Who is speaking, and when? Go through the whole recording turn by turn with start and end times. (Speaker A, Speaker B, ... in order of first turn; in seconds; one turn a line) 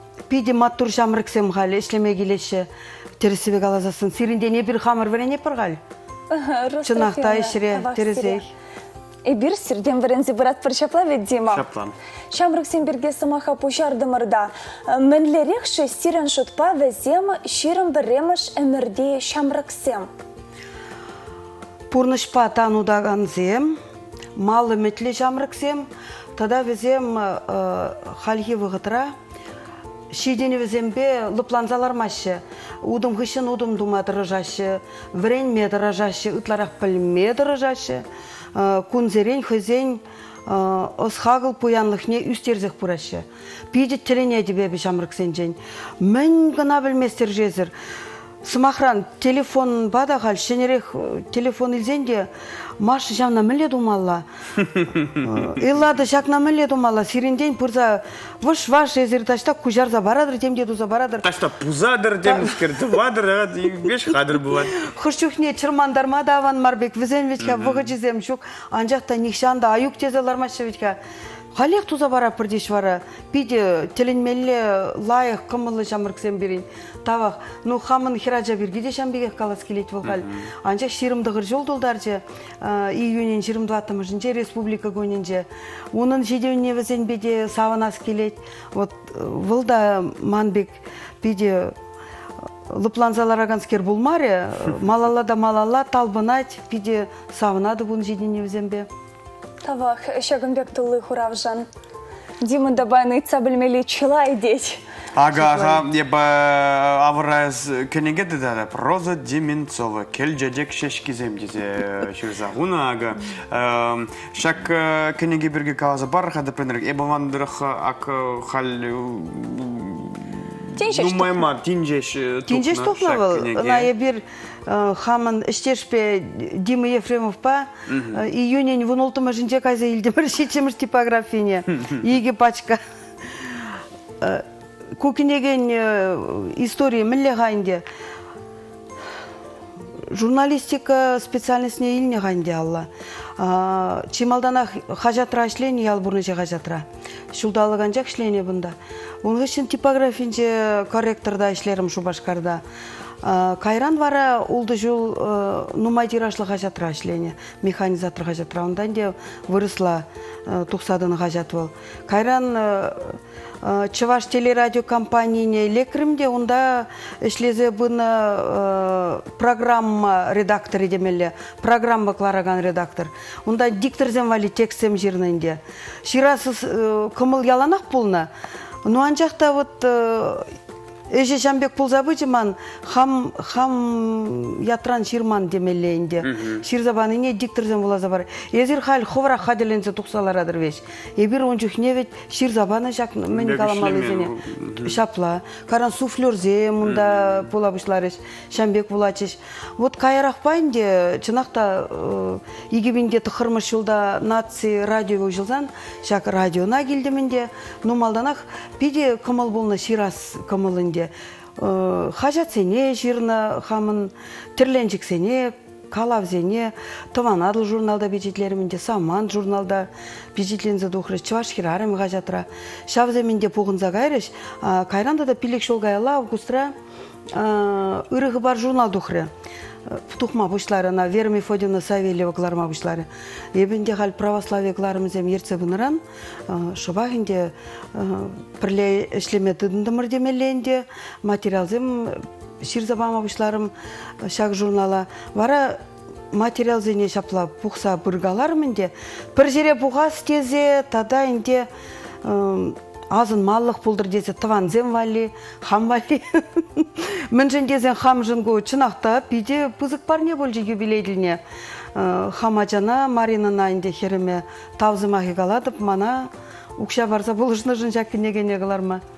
Speaker A: 0.3-2.7
Speaker A: 3.2-5.8
Speaker B: 6.3-8.4
Speaker A: 6.8-8.5
Speaker B: 9.3-11.6
Speaker C: 11.5-11.9
Speaker B: 12.3-20.1
Speaker A: 21.9-23.8
Speaker A: 24.4-29.1
Speaker A: 30.1-47.7
Speaker A: 48.4-54.2
Speaker C: 54.7-55.3
Speaker A: 55.2-61.3
Speaker C: 61.2-64.8
Speaker A: 62.3-62.6
Speaker A: 64.7-71.0
Speaker C: 67.4-67.9
Speaker A: 71.5-91.8
Speaker C: 80.0-80.5
Speaker A: 92.7-98.9
Speaker B: 99.6-101.7
Speaker B: 102.4-104.8
Speaker C: 105.2-123.9
Speaker A: 105.3-105.8
Speaker B: 120.8-121.5
Speaker A: 122.5-132.8
Speaker C: 127.9-128.2
Speaker A: 134.2-134.5
Speaker A: 135.0-137.8
Speaker A: 140.1-152.6
Speaker A: 153.2-178.3
Speaker A: 178.8-180.5
Speaker A: 181.1-226.7
Speaker C: 186.2-186.6
Speaker C: 193.3-194.9
Speaker C: 196.8-197.5
Speaker A: 227.3-229.3
Speaker A: 229.9-245.8
Speaker A: 246.3-251.7
Speaker A: 252.2-261.4
Speaker A: 261.9-269.0